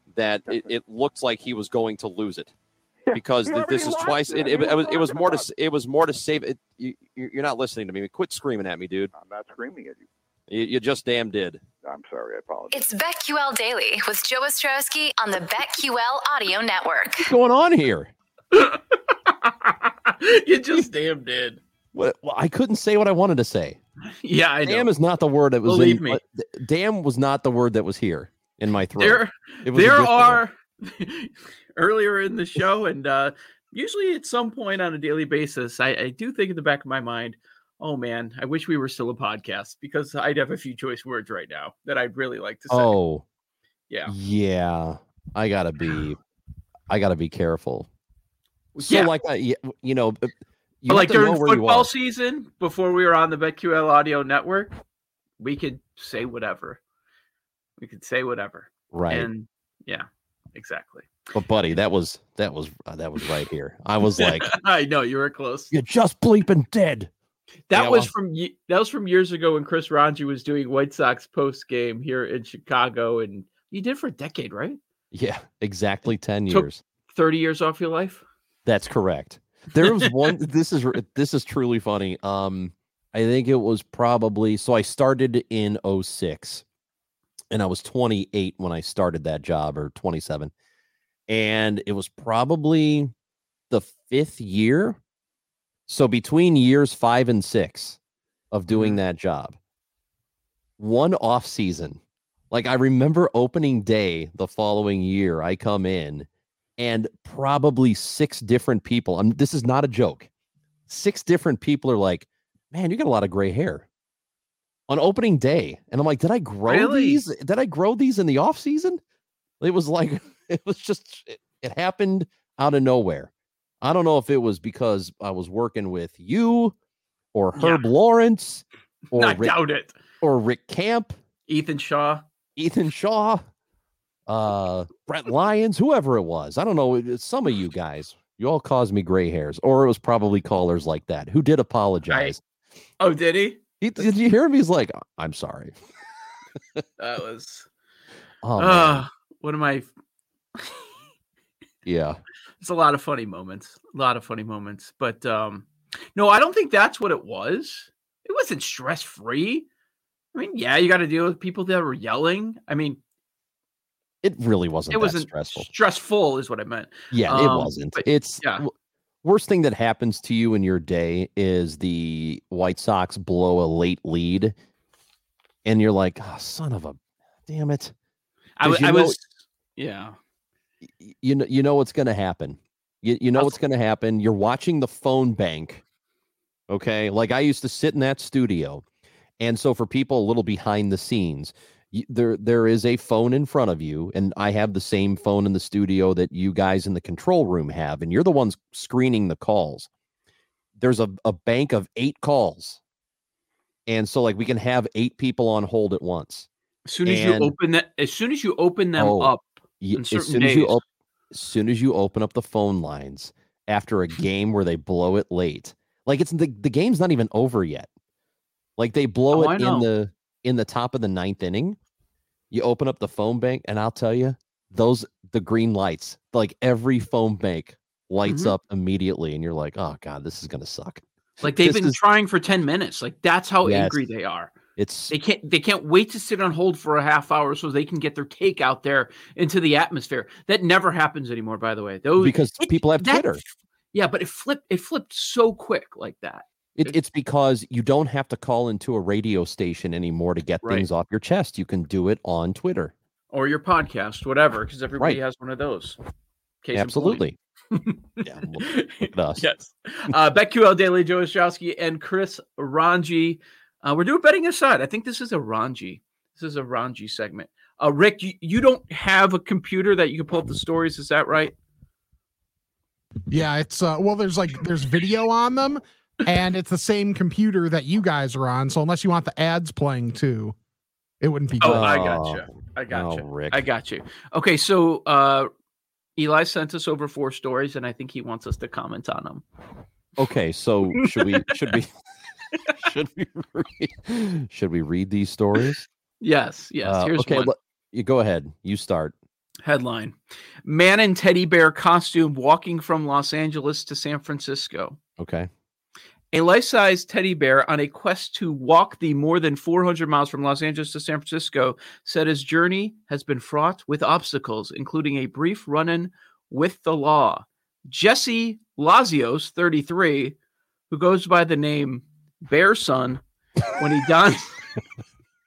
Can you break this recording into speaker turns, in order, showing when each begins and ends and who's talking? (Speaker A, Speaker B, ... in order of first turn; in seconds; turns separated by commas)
Speaker A: 0.1-2.5, Speaker B: 3.1-5.5, Speaker A: 3.1-9.1, Speaker B: 9.1-10.1, Speaker A: 10.5-11.6, Speaker B: 11.8-13.0, Speaker C: 12.7-17.3, Speaker A: 17.2-18.1, Speaker D: 18.5-21.6, Speaker A: 21.9-23.8, Speaker D: 24.1-24.9, Speaker A: 24.6-30.4, Speaker D: 25.7-26.2, Speaker D: 29.0-42.9, Speaker A: 42.7-43.2, Speaker D: 43.9-44.1, Speaker A: 44.1-46.2, Speaker A: 46.9-47.9, Speaker D: 48.8-49.1, Speaker A: 48.8-50.3, Speaker A: 50.8-51.9, Speaker D: 50.9-54.7, Speaker D: 55.4-56.8, Speaker D: 57.8-61.1, Speaker A: 58.9-59.3, Speaker A: 61.3-64.5, Speaker D: 64.0-65.7, Speaker A: 65.7-67.1, Speaker D: 67.7-74.8, Speaker A: 67.7-68.1, Speaker A: 75.1-76.8, Speaker D: 76.5-78.2, Speaker A: 78.7-86.7, Speaker A: 87.5-90.5, Speaker A: 91.3-93.1, Speaker A: 93.7-95.0, Speaker A: 95.9-98.0, Speaker A: 98.5-99.6, Speaker D: 98.7-99.0, Speaker A: 100.8-102.0, Speaker A: 102.5-106.3, Speaker A: 106.8-110.3, Speaker A: 110.9-113.9, Speaker A: 114.9-119.0, Speaker D: 116.7-117.2, Speaker A: 119.6-123.3, Speaker A: 123.8-126.8, Speaker A: 127.3-129.6, Speaker D: 127.6-127.9, Speaker D: 129.1-130.0, Speaker A: 130.2-131.1, Speaker D: 131.5-132.2, Speaker A: 132.6-133.4, Speaker A: 134.3-142.4, Speaker D: 142.1-142.3, Speaker D: 143.0-144.1, Speaker A: 143.8-145.8, Speaker D: 147.0-147.7, Speaker A: 148.4-149.0, Speaker D: 148.6-149.9, Speaker D: 150.6-150.9, Speaker A: 151.9-152.2, Speaker D: 152.6-159.7, Speaker D: 160.3-163.0, Speaker A: 164.2-165.7, Speaker D: 164.9-168.7, Speaker A: 167.1-168.7, Speaker A: 169.2-174.5, Speaker A: 175.7-177.9, Speaker D: 178.6-180.2, Speaker A: 178.6-179.2, Speaker A: 181.0-185.8, Speaker A: 186.7-188.8, Speaker A: 189.4-199.9, Speaker A: 200.8-202.8, Speaker A: 203.9-206.5, Speaker D: 206.9-210.8, Speaker A: 207.1-207.5, Speaker A: 209.0-217.9, Speaker A: 218.8-221.8, Speaker D: 219.3-219.9, Speaker A: 222.5-232.0, Speaker D: 228.3-228.6, Speaker D: 231.4-234.5, Speaker A: 233.6-234.0, Speaker A: 234.8-235.2, Speaker D: 235.1-243.4, Speaker A: 242.2-243.4, Speaker D: 243.9-247.0, Speaker A: 246.8-252.9, Speaker D: 253.3-256.0, Speaker D: 256.6-271.6, Speaker A: 256.7-257.4, Speaker A: 258.2-259.4, Speaker E: 273.3-280.6, Speaker E: 281.2-281.9, Speaker A: 281.6-283.6, Speaker D: 281.6-285.5, Speaker D: 286.2-289.4, Speaker A: 290.2-291.9, Speaker D: 291.0-291.4, Speaker A: 292.8-295.8, Speaker D: 296.2-297.5, Speaker A: 296.8-299.1, Speaker D: 299.6-305.0, Speaker A: 305.2-305.5, Speaker D: 306.3-320.4, Speaker D: 320.9-323.2, Speaker D: 323.7-324.6